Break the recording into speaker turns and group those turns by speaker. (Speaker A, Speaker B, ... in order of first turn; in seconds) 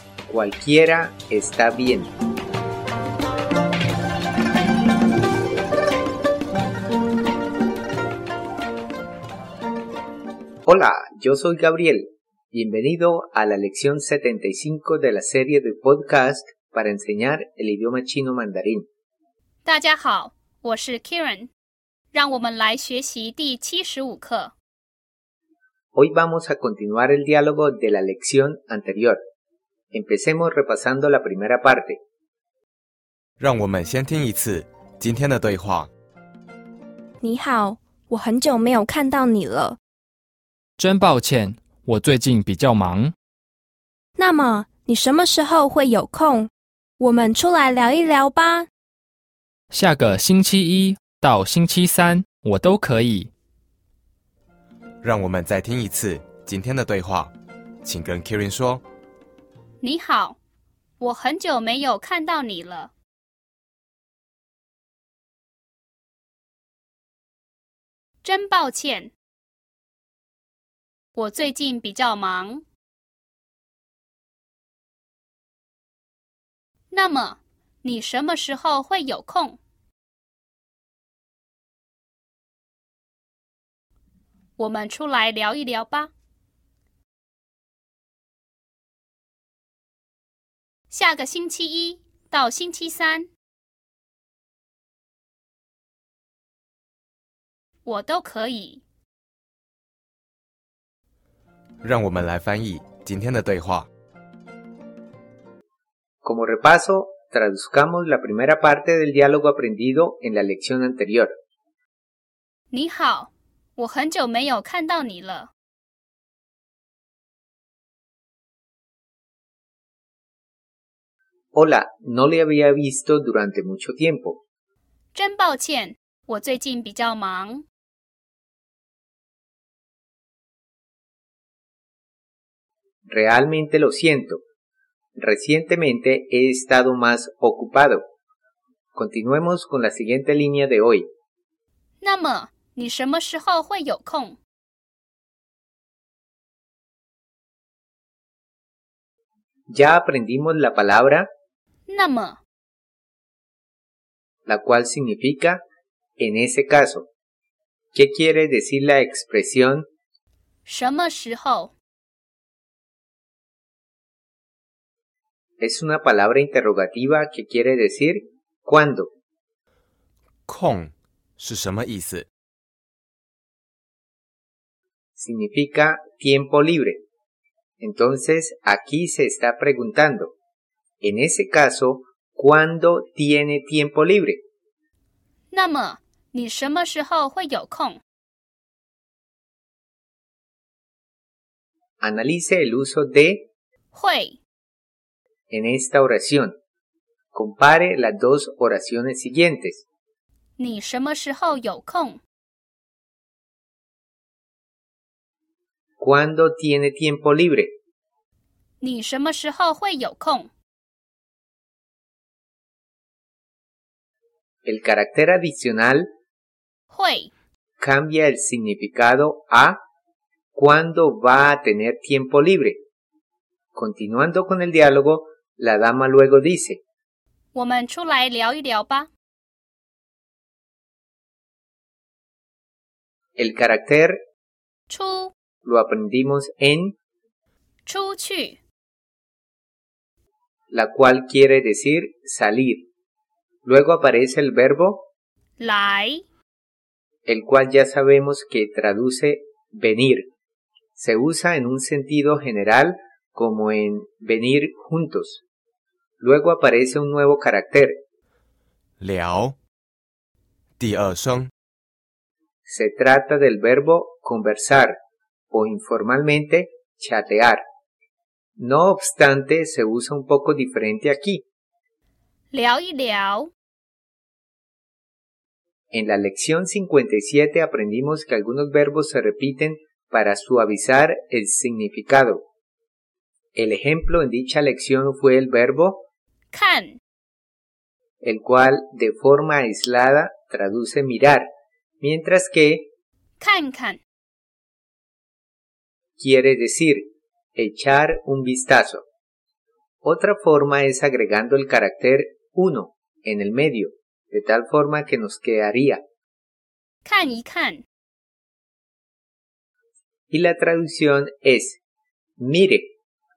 Speaker A: 0.3-2.1, 10.7-18.9, 25.9-29.2, 29.9-32.0, 106.2-111.3, 121.5-124.4, 133.1-134.4, 135.2-138.0, 138.9-141.1, 149.7-151.3, 154.4-155.6, 156.2-157.1, 157.9-159.9, 165.6-169.1, 175.2-177.0, 177.8-180.3, 181.0-184.4, 192.0-193.5, 195.5-196.6, 197.3-199.8, 206.0-207.7, 214.6-216.1, 217.8-219.8, 220.5-222.8, 223.7-226.8, 233.4-234.2, 235.6-237.0, 240.7-242.9, 243.6-245.1, 247.2-250.3, 250.9-255.4, 256.2-258.0, 262.6-264.9, 265.5-267.6, 268.6-271.4, 275.9-282.4, 283.6-286.0, 288.2-291.5, 292.0-292.9, 296.2-299.0, 300.0-306.0, 310.3-311.8, 312.4-312.9
Speaker B: 19.6-21.5, 22.1-24.5, 59.8-60.4, 61.0-62.9, 68.2-69.1, 71.1-72.6, 76.9-79.6, 84.6-86.1, 90.9-93.3, 97.8-98.8, 112.7-115.5, 125.1-127.6, 142.0-144.4, 151.9-152.4, 160.7-161.7, 185.5-188.0, 193.9-194.4, 200.6-202.2, 208.8-210.5, 216.9-217.3, 227.5-229.1, 234.9-235.3, 237.8-238.6, 245.6-246.2, 272.5-273.5, 286.5-287.0, 293.4-294.0, 307.0-307.8
Speaker C: 33.4-35.9, 55.0-57.3, 57.8-58.8, 101.8-103.9, 170.4-172.3, 259.0-259.6, 260.8-261.5
Speaker D: 37.2-39.8, 44.2-48.7
Speaker E: 40.8-43.1, 49.7-53.3